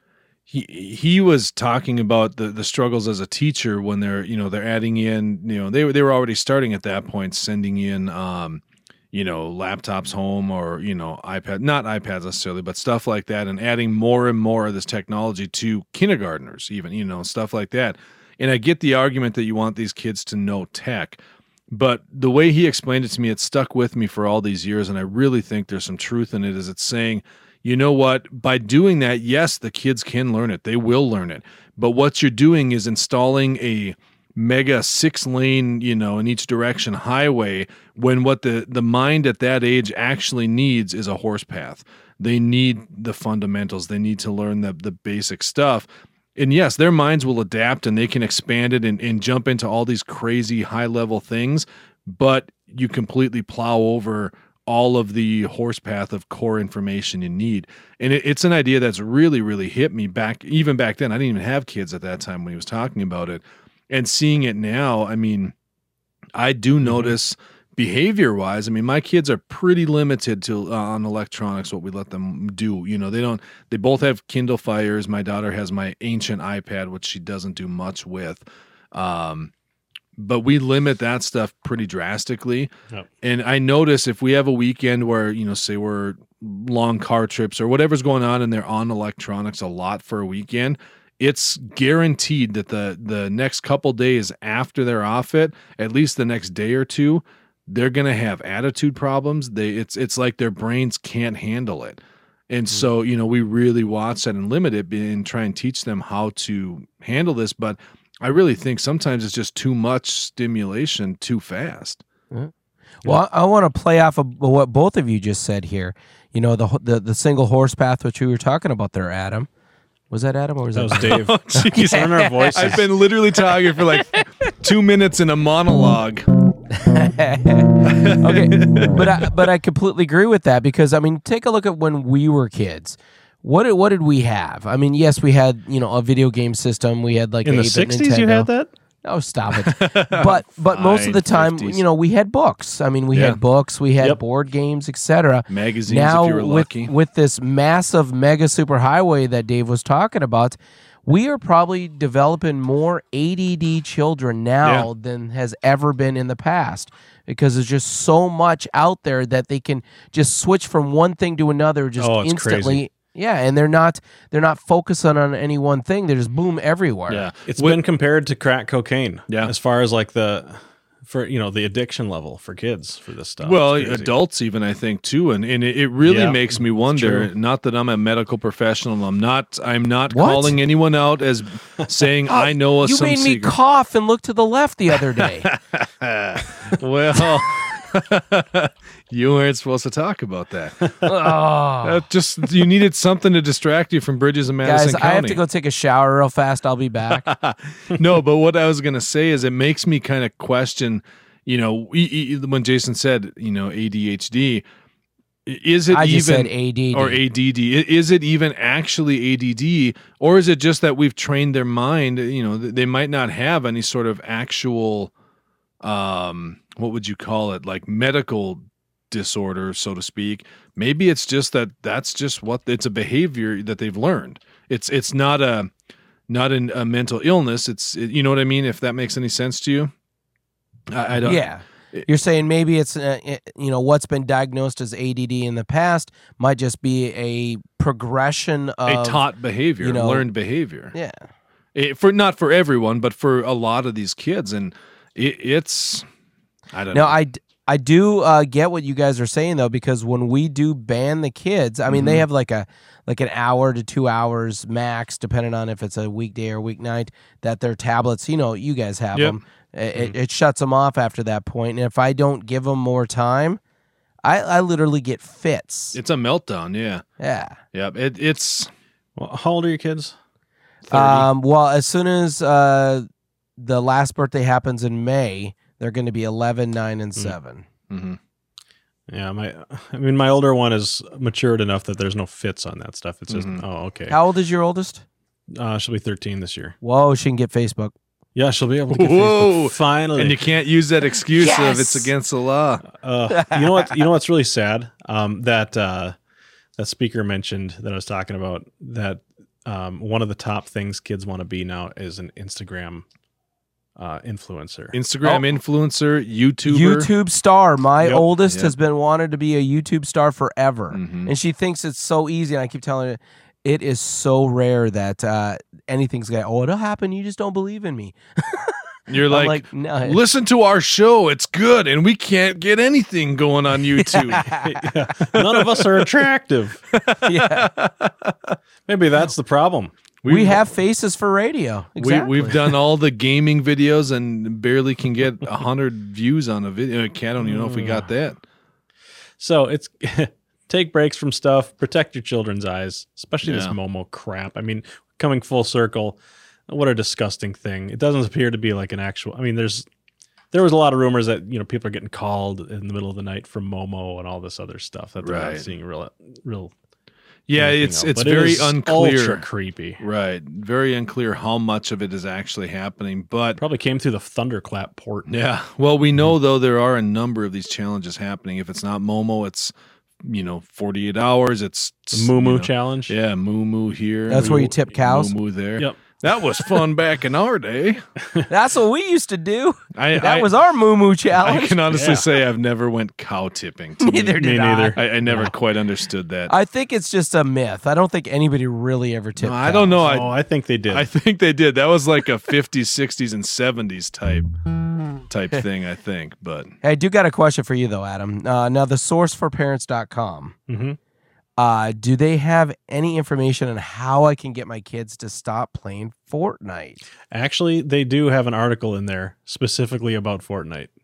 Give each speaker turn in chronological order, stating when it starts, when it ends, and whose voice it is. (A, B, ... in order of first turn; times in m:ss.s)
0:00.5-0:21.2 A
0:21.7-1:05.5 A
1:06.3-1:19.5 A
1:06.8-1:07.1 B
1:20.2-1:22.7 A
1:23.2-1:52.0 A
1:53.0-1:59.5 C
2:00.1-2:02.7 C
2:00.7-2:02.8 B
2:01.0-2:06.3 A
2:06.7-2:18.5 C
2:07.8-2:09.3 A
2:17.4-2:18.7 B
2:19.0-2:47.3 C
2:19.6-2:21.8 A
2:23.1-2:23.4 A
2:25.5-2:26.9 A
2:42.0-2:42.8 B
2:47.1-2:47.8 A
2:47.5-2:54.1 B
2:53.4-3:03.6 A
2:56.0-2:57.3 B
3:00.1-3:00.6 C
3:02.3-3:05.5 C
3:05.2-3:11.1 A
3:11.0-3:12.0 C
3:11.8-3:15.4 A
3:14.6-3:17.3 C
3:17.1-3:24.6 A
3:25.4-3:35.1 A
3:25.9-3:27.2 C
3:35.8-3:45.7 A
3:46.3-3:49.9 A
3:50.9-3:52.0 A
3:51.2-3:59.2 C
3:58.9-4:00.9 A
3:59.8-4:00.3 C
4:00.9-4:01.3 C
4:01.7-4:06.0 A
4:06.7-4:07.2 A
4:06.9-4:23.6 C
4:11.9-4:12.2 A
4:19.1-4:19.4 A
4:24.2-4:26.0 C
4:25.9-4:27.0 A
4:27.2-4:27.6 C
4:27.7-4:28.7 A
4:29.2-4:30.1 B
4:30.9-4:31.3 A
4:30.9-4:33.0 C
4:33.6-4:37.6 C
4:37.9-4:38.2 A
4:39.1-4:44.2 B
4:43.3-4:43.6 A
4:44.1-4:45.0 C
4:45.5-4:46.7 B
4:46.8-4:47.9 C
4:48.3-4:50.4 B
4:48.9-4:52.8 A
4:51.3-4:52.1 C
4:52.9-4:56.2 B
4:53.3-4:53.8 C
4:56.8-5:03.0 B
5:04.0-5:05.0 B
5:04.9-5:07.1 A
5:06.7-5:20.2 C
5:08.0-5:08.3 B
5:08.4-5:08.7 A
5:10.9-5:11.3 A
5:19.1-5:24.5 A
5:24.0-5:24.9 C
5:24.5-5:26.8 B
5:25.3-5:26.0 A
5:26.9-5:28.6 A
5:27.2-5:27.7 C
5:28.9-5:29.9 B
5:30.2-5:30.7 A
5:30.3-5:32.7 C
5:32.0-5:38.4 A
5:37.4-5:38.1 B
5:39.4-5:49.9 B
5:43.4-5:43.7 A
5:50.5-5:56.7 B
5:55.2-5:55.7 A
5:57.5-5:59.4 A
5:57.6-6:00.0 B
6:00.0-6:03.6 A
6:03.6-6:05.3 B
6:05.3-6:18.0 A
6:12.1-6:13.1 B
6:14.3-6:15.3 C
6:14.3-6:14.8 B
6:16.5-6:16.8 B
6:18.5-6:21.8 C
6:20.0-6:20.5 A
6:21.4-6:24.3 A
6:21.9-6:22.3 B
6:24.0-6:25.1 C
6:24.3-6:25.5 B
6:25.0-6:26.5 A
6:26.5-6:30.0 C
6:29.4-6:30.3 A
6:30.0-6:31.1 B
6:30.9-6:34.5 A
6:35.3-6:36.7 A
6:36.8-6:40.6 C
6:40.7-6:41.0 B
6:41.6-6:47.0 C
6:47.3-6:50.9 B